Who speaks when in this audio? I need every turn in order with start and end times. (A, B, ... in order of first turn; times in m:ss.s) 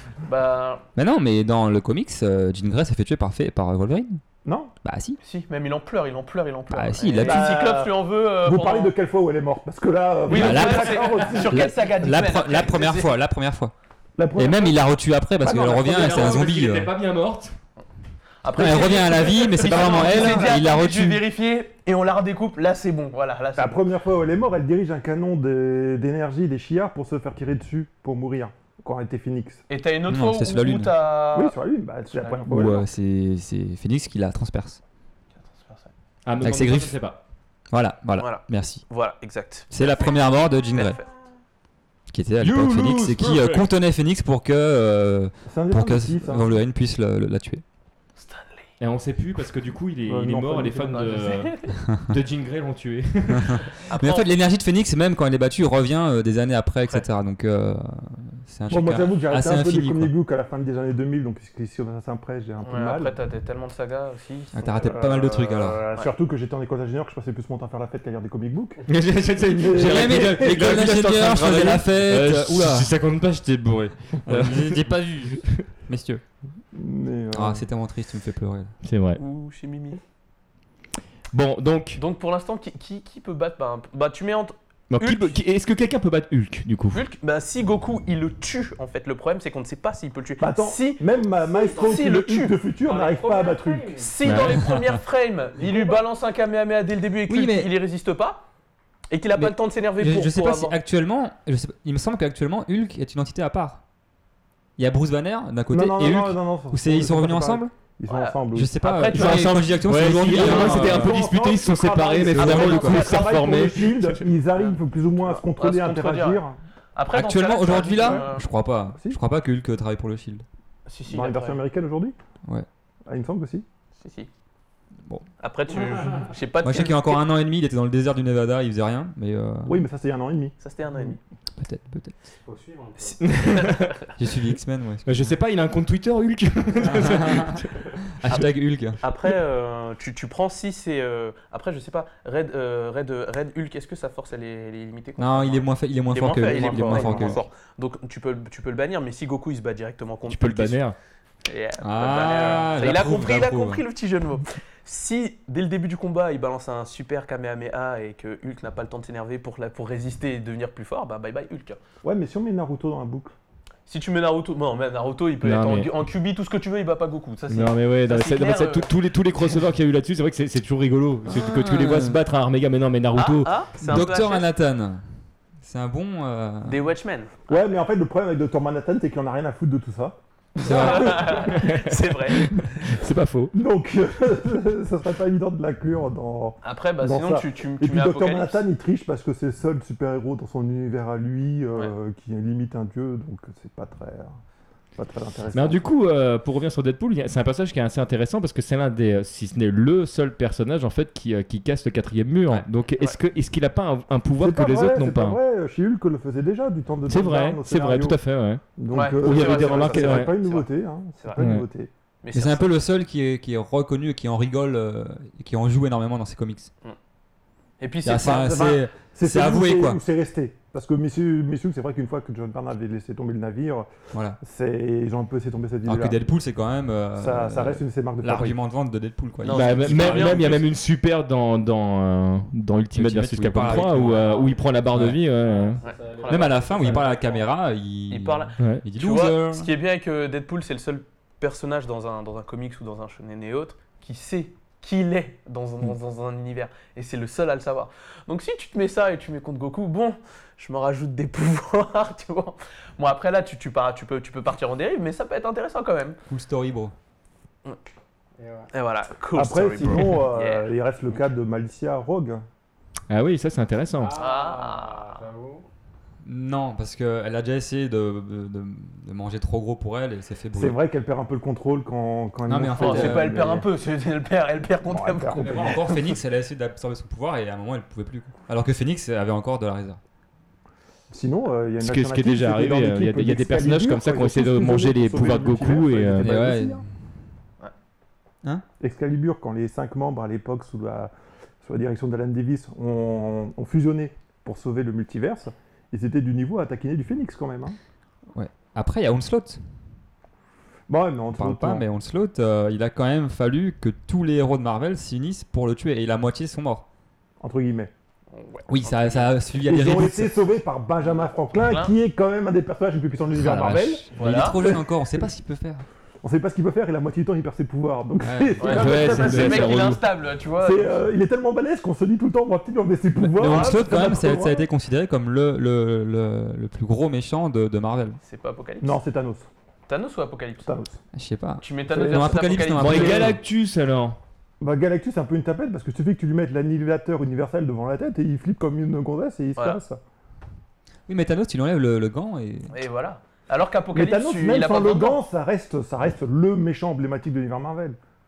0:00.2-0:00.8 A
0:01.0-0:04.2 B
0:04.4-0:04.7 C
0:04.8-0:05.2 B
0:05.2-0:08.9 A
0:06.7-0:07.4 B
0:07.2-0:11.7 C
0:10.3-0:13.2 A
0:10.3-0:13.7 B
0:14.2-0:14.8 C
0:14.4-0:16.9 B
0:15.5-0:17.5 D
0:18.4-0:23.8 A
0:18.5-0:21.2 B
0:23.6-0:29.6 C
0:29.7-0:31.6 A
0:30.1-0:30.9 B
0:31.3-0:32.9 C
0:32.1-0:32.5 A
0:32.5-0:34.8 B
0:35.4-0:35.9 A
0:36.2-0:37.2 D
0:36.4-0:37.0 B
0:37.7-0:38.8 B
0:38.2-0:41.1 A
0:39.7-0:41.0 B
0:42.1-0:47.6 B
0:42.4-0:43.7 D
0:45.5-0:46.5 C
0:48.2-0:48.7 A
0:48.8-0:53.8 D
0:50.1-0:51.2 C
0:50.9-0:51.8 A
0:51.8-0:52.1 B
0:53.3-1:00.1 B
0:53.9-0:54.3 A
0:58.7-1:03.1 C
1:02.6-1:04.9 A
1:04.5-1:05.8 B
1:04.8-1:08.8 C
1:08.9-1:15.6 D
1:09.4-1:11.0 C
1:09.7-1:12.9 B
1:14.2-1:16.2 B
1:16.7-1:17.6 C
1:17.3-1:18.7 B
1:18.8-1:19.2 D
1:19.2-1:20.0 A
1:21.3-1:22.0 D
1:22.0-1:25.4 A
1:24.9-1:27.0 D
1:26.9-1:31.0 A
1:30.4-1:33.9 C
1:31.5-1:32.0 E
1:31.7-1:32.6 A
1:32.7-1:34.1 E
1:34.0-1:38.4 A
1:34.2-1:34.6 D
1:34.4-1:34.8 B
1:35.7-1:36.0 E
1:37.3-1:37.7 B
1:39.1-1:40.8 A
1:39.4-1:43.8 B
1:44.8-1:47.7 B
1:45.7-1:49.0 C
1:48.1-1:50.7 A
1:48.5-1:51.2 B
1:49.1-1:54.3 D
1:50.2-1:56.6 C
1:52.2-1:53.1 B
1:52.4-1:53.3 A
1:55.2-1:56.4 A
1:56.9-1:58.4 A
1:57.1-2:00.4 B
2:00.8-2:01.6 A
2:01.1-2:02.2 C
2:03.1-2:03.6 C
2:04.0-2:04.3 A
2:05.4-2:07.2 A
2:05.7-2:06.3 E
2:06.6-2:09.8 B
2:09.6-2:11.2 C
2:10.6-2:11.2 A
2:11.6-2:12.2 B
2:12.4-2:13.2 E
2:13.0-2:14.0 A
2:13.2-2:14.1 D
2:14.1-2:15.3 B
2:15.0-2:18.4 D
2:16.8-2:19.0 B
2:18.3-2:30.8 A
2:25.2-2:27.4 B
2:26.4-2:27.4 C
2:30.3-2:31.0 D
2:31.4-2:41.8 A
2:31.8-2:33.8 B
2:42.0-2:43.3 C
2:43.9-2:48.9 A
2:45.4-2:45.9 D
2:47.5-2:53.6 D
2:51.3-2:52.2 B
2:53.1-2:54.5 A
2:53.8-2:56.9 B
2:56.6-2:57.6 A
2:57.5-3:01.9 C
3:00.6-3:02.6 A
3:00.6-3:01.4 B
3:00.9-3:03.5 D
3:03.5-3:14.4 C
3:06.6-3:08.6 A
3:15.0-3:15.8 C
3:15.5-3:25.4 D
3:22.5-3:23.2 A
3:24.4-3:28.2 C
3:27.1-3:28.6 D
3:28.8-3:31.9 C
3:28.9-3:30.6 A
3:29.2-3:30.3 D
3:31.4-3:31.6 D
3:32.2-3:32.7 A
3:32.3-3:36.7 B
3:37.8-3:38.7 A
3:38.0-3:40.0 B
3:38.3-3:43.9 C
3:44.1-3:44.4 B
3:44.4-3:46.2 C
3:45.8-3:50.6 B
3:47.2-3:48.6 C
3:49.4-3:50.7 A
3:49.5-3:55.8 D
3:52.9-3:54.4 B
3:53.9-3:57.5 E
3:54.9-3:55.2 B
3:55.8-3:57.4 A
3:56.3-3:59.7 B
3:58.1-4:16.2 A
4:16.3-4:16.9 B
4:18.4-4:18.7 E
4:18.7-4:21.2 A
4:19.3-4:22.4 C
4:23.1-4:24.2 D
4:24.0-4:25.6 E
4:24.1-4:25.2 A
4:26.2-4:30.8 B
4:30.5-4:33.7 C
4:32.5-4:33.5 B
4:32.8-4:36.2 A
4:34.8-4:35.8 C
4:35.4-4:40.0 B
4:41.1-4:46.8 C
4:41.8-4:46.3 D
4:46.2-4:46.9 B
4:48.8-4:57.8 C
4:58.3-4:59.6 B
5:00.9-5:01.8 C
5:01.3-5:06.8 B
5:07.4-5:07.9 C
5:08.3-5:09.5 A
5:08.7-5:10.4 B
5:09.6-5:15.2 C
5:11.6-5:11.9 A
5:13.3-5:15.8 B
5:14.2-5:14.6 A
5:16.2-5:20.0 C
5:18.2-5:19.6 B
5:18.6-5:21.0 A
5:18.7-5:20.0 D
5:20.6-5:24.7 C
5:23.3-5:28.2 B
5:28.2-5:29.0 A
5:28.8-5:29.5 C
5:29.9-5:30.7 A
5:30.6-5:31.0 C
5:31.1-5:33.4 B
5:31.6-5:33.4 A
5:31.9-5:33.3 C
5:32.8-5:34.2 D
5:34.6-5:40.0 C
5:41.1-5:42.8 B
5:42.7-5:45.2 A
5:43.9-5:48.0 C